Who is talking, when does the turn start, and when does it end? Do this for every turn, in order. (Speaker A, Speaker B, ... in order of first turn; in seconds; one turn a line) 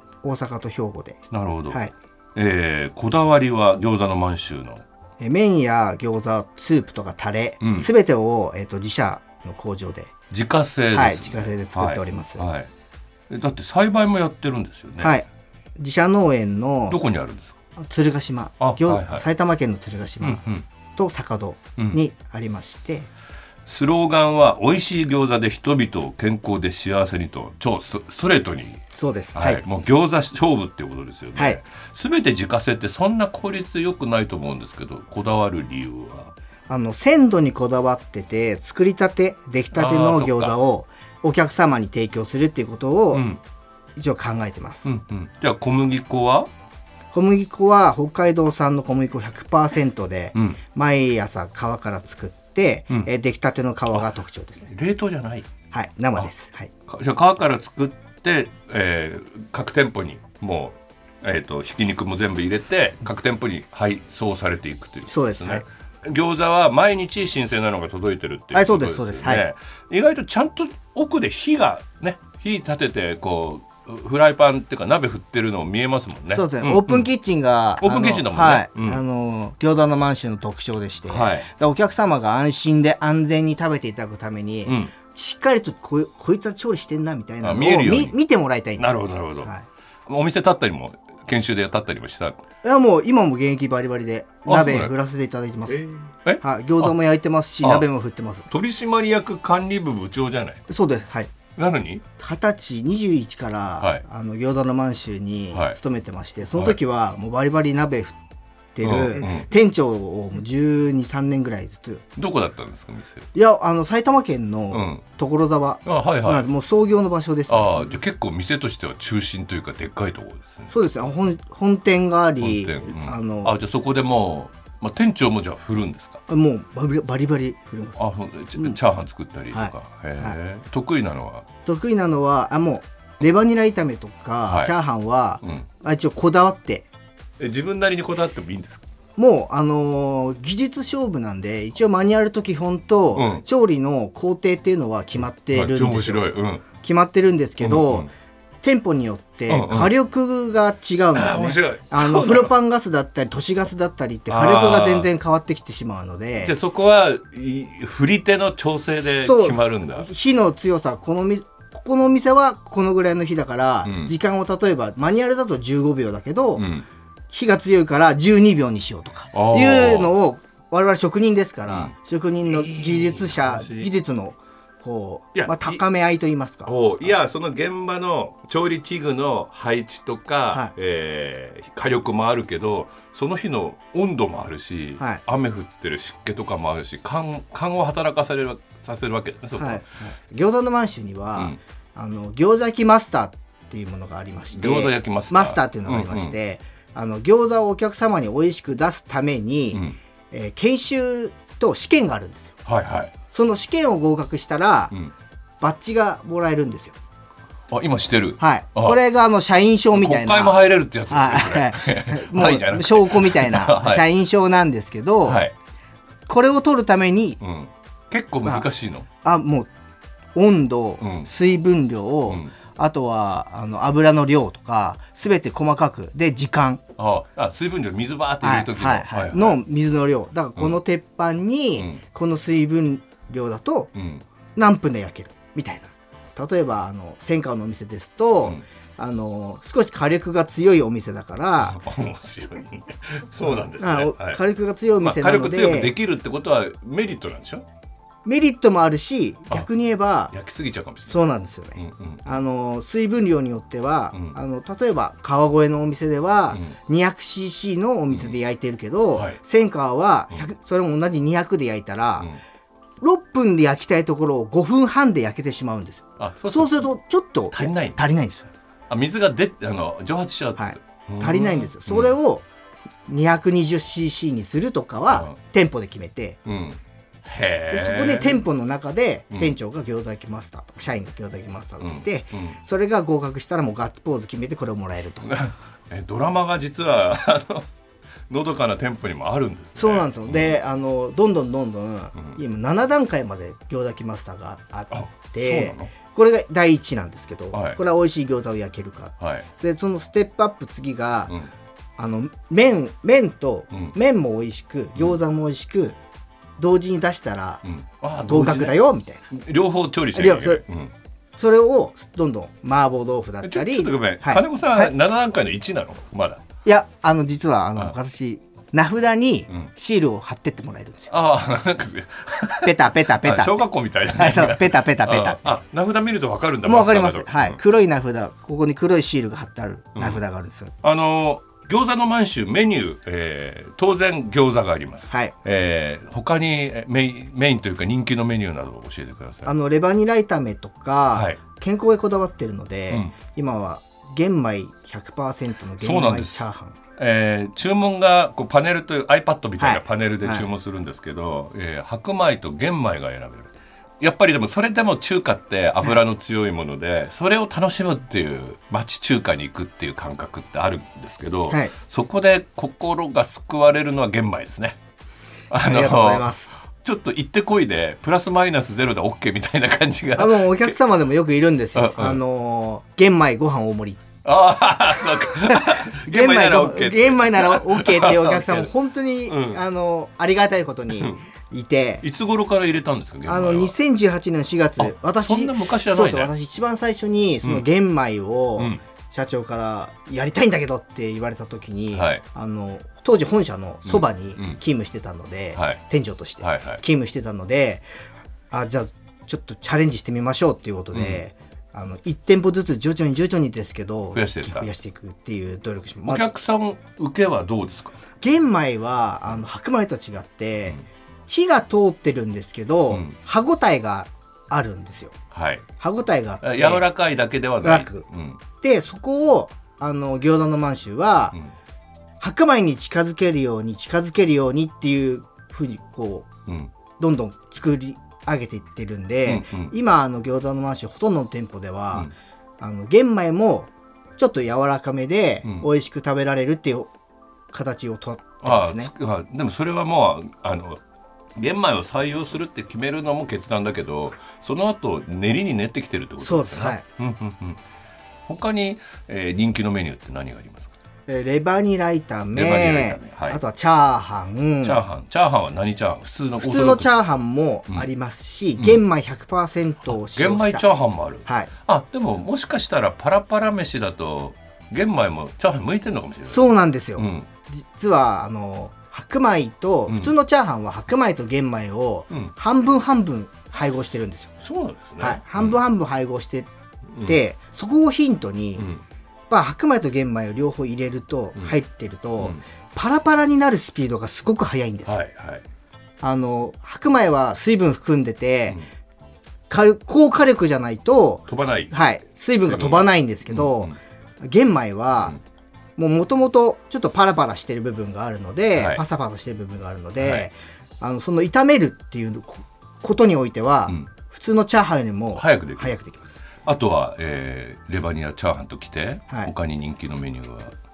Speaker A: 0.2-1.9
Speaker B: 1.3-1.8
Speaker B: 2.3-4.8
Speaker A: 5.2-10.1
Speaker B: 7.6-7.9
Speaker B: 10.3-12.7
Speaker A: 10.9-12.4
Speaker B: 13.3-15.1
Speaker A: 15.0-15.3
Speaker A: 15.8-17.0
Speaker B: 16.9-17.5
Speaker A: 17.8-20.4
Speaker B: 18.6-19.2
Speaker B: 20.2-20.6
Speaker A: 20.9-23.1
Speaker B: 23.6-28.8
Speaker A: 28.9-29.6
Speaker B: 29.3-36.3
Speaker A: 36.7-43.3
Speaker B: 39.7-40.6
Speaker B: 43.1-43.4
Speaker A: 44.0-44.9
Speaker B: 44.8-46.5
Speaker A: 47.1-54.7
Speaker B: 54.6-55.5
Speaker A: 55.7-56.7
Speaker B: 56.9-77.1
Speaker A: 65.1-65.6
Speaker A: 68.5-69.4
Speaker A: 76.3-89.7
Speaker B: 77.8-79.0
Speaker B: 81.1-81.5
Speaker B: 84.7-84.9
Speaker B: 87.4-88.2
Speaker B: 88.8-89.5
Speaker B: 90.1-92.4
Speaker A: 92.6-98.5
Speaker B: 94.4-95.0
Speaker B: 95.7-96.9
Speaker B: 97.6-97.9
Speaker B: 98.5-100.6
Speaker A: 100.7-101.3
Speaker B: 101.5-102.0
Speaker A: 102.2-108.2
Speaker B: 105.5-105.8
Speaker A: 108.7-112.0
Speaker B: 108.8-109.5
Speaker B: 112.2-113.3
Speaker A: 113.3-118.0
Speaker B: 114.7-115.0
Speaker B: 115.8-116.5
Speaker B: 117.5-120.7
Speaker A: 120.7-123.5
Speaker B: 122.4-126.2
Speaker A: 126.3-128.8
Speaker B: 128.0-131.4
Speaker A: 129.5-130.3
Speaker A: 131.6-136.9
Speaker B: 137.4-138.8
Speaker A: 139.2-148.1
Speaker B: 143.1-143.4
Speaker B: 145.5-146.6
Speaker B: 147.6-148.1
Speaker A: 148.6-156.6
Speaker B: 149.5-149.9
Speaker B: 151.1-152.5
Speaker B: 154.3-155.1
Speaker B: 156.3-160.1
Speaker A: 159.2-166.7
Speaker B: 163.8-164.1
Speaker B: 166.5-166.8
Speaker A: 167.3-176.7
Speaker B: 169.3-170.2
Speaker B: 171.7-171.9
Speaker B: 172.4-173.9
Speaker B: 175.3-175.8
Speaker B: 176.7-189.8
Speaker A: 189.6-202.6
Speaker B: 194.5-196.4
Speaker B: 202.6-203.1
Speaker A: 203.3-205.0
Speaker A: 205.6-206.9
Speaker B: 207.7-209.0
Speaker A: 208.4-215.4
Speaker B: 209.9-214.1
Speaker B: 215.2-215.5
Speaker A: 216.3-217.4
Speaker B: 217.4-219.1
Speaker A: 219.2-219.7
Speaker A: 220.3-226.8
Speaker B: 221.0-221.3
Speaker B: 227.0-229.6
Speaker A: 228.4-233.9
Speaker B: 233.9-234.2
Speaker A: 234.5-241.8
Speaker B: 241.6-244.4
Speaker A: 243.5-245.9
Speaker B: 245.0-247.6
Speaker A: 248.2-250.3
Speaker B: 250.3-252.2
Speaker A: 251.1-262.3
Speaker B: 256.5-256.8
Speaker A: 263.0-268.5
Speaker B: 266.2-266.9
Speaker B: 267.5-268.0
Speaker B: 268.9-272.1
Speaker A: 270.6-272.4
Speaker A: 273.1-276.4
Speaker B: 275.1-275.4
Speaker B: 276.4-278.4
Speaker A: 277.7-285.4
Speaker B: 281.8-282.6
Speaker B: 285.2-287.7
Speaker B: 288.3-290.6
Speaker A: 289.8-301.4
Speaker B: 294.9-295.9
Speaker B: 297.5-297.8
Speaker B: 299.2-299.5
Speaker A: 302.0-306.0
Speaker A: 306.6-307.6
Speaker B: 307.6-310.9
Speaker A: 308.2-309.3
Speaker A: 310.1-310.6
Speaker A: 311.4-314.9
Speaker B: 313.4-316.4
Speaker A: 316.6-321.1
Speaker B: 321.1-327.6
Speaker A: 322.6-323.6
Speaker A: 324.1-325.6
Speaker A: 326.6-330.7
Speaker B: 329.9-330.2
Speaker B: 330.8-339.5
Speaker A: 339.4-346.8
Speaker B: 341.1-341.4
Speaker B: 345.8-364.8
Speaker A: 349.6-350.4
Speaker A: 361.5-361.7
Speaker B: 365.5-370.8
Speaker A: 365.6-366.5
Speaker A: 370.1-374.0
Speaker B: 371.7-372.2
Speaker B: 374.2-378.7
Speaker A: 375.3-382.0
Speaker B: 379.2-379.6
Speaker B: 380.9-381.3
Speaker B: 382.0-383.7
Speaker A: 383.3-397.8
Speaker B: 384.8-386.3
Speaker B: 388.6-388.8
Speaker B: 391.9-392.2
Speaker B: 393.9-394.6
Speaker B: 395.5-395.8
Speaker B: 396.4-396.8
Speaker A: 398.5-406.3
Speaker B: 400.9-401.2
Speaker B: 404.1-404.7
Speaker B: 406.1-407.9
Speaker A: 408.2-415.1
Speaker B: 415.3-415.6
Speaker A: 415.8-416.9
Speaker B: 416.4-418.4
Speaker A: 417.6-421.4
Speaker A: 422.2-426.3
Speaker B: 426.5-426.7
Speaker A: 427.0-436.9
Speaker B: 429.2-429.7
Speaker A: 437.5-438.9
Speaker B: 438.4-440.8
Speaker B: 441.4-447.6
Speaker A: 446.2-446.8
Speaker B: 448.2-450.7
Speaker A: 451.1-454.8
Speaker B: 452.3-453.4
Speaker B: 454.6-456.9
Speaker A: 456.4-460.6
Speaker B: 458.6-458.8
Speaker B: 459.9-467.3
Speaker A: 461.2-461.5
Speaker A: 466.3-474.3
Speaker B: 469.9-470.1
Speaker B: 474.4-475.6
Speaker A: 475.0-476.5
Speaker B: 476.9-477.2
Speaker A: 477.0-478.7
Speaker B: 478.6-478.8
Speaker A: 479.3-485.0
Speaker B: 484.8-485.4
Speaker A: 486.0-488.6
Speaker A: 489.5-495.2
Speaker B: 491.3-491.7
Speaker B: 492.4-493.7
Speaker A: 495.8-506.1
Speaker B: 498.5-498.8
Speaker B: 500.0-500.3
Speaker B: 505.1-505.8
Speaker B: 506.4-510.5